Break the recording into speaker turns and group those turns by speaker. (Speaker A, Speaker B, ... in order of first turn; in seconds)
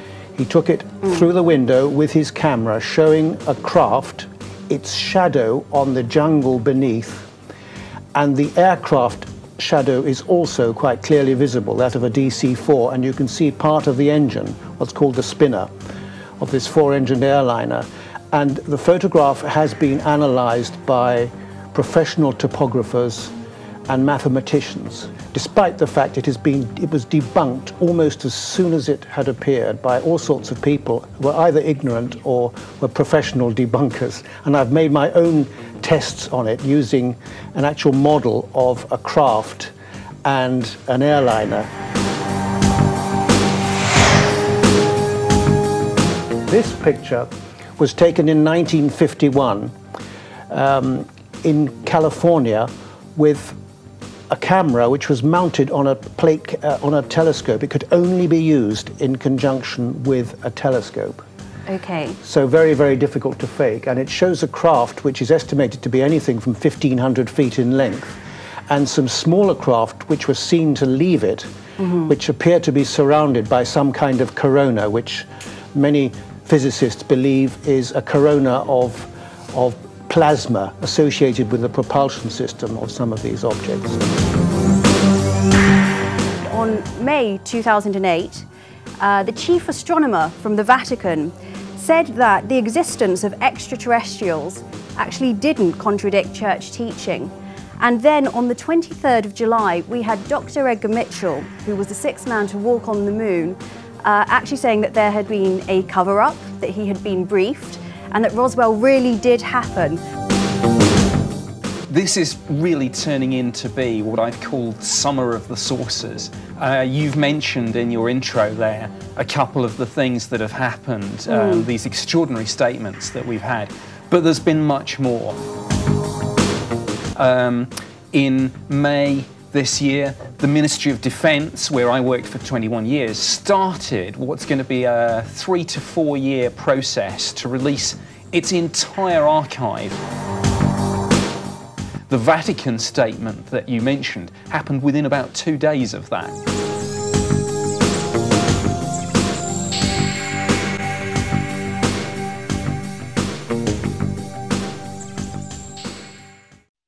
Speaker A: 0.3-7.3, 8.1-15.7, 16.4-23.4, 23.9-41.7, 46.5-49.7, 50.5-53.6, 54.3-61.2, 62.2-71.5, 72.1-84.1
Speaker B: 61.7-62.2, 71.8-72.1, 86.5-88.5, 89.0-110.0, 121.3-121.7
Speaker C: 111.9-125.4, 127.2-140.0, 142.1-146.4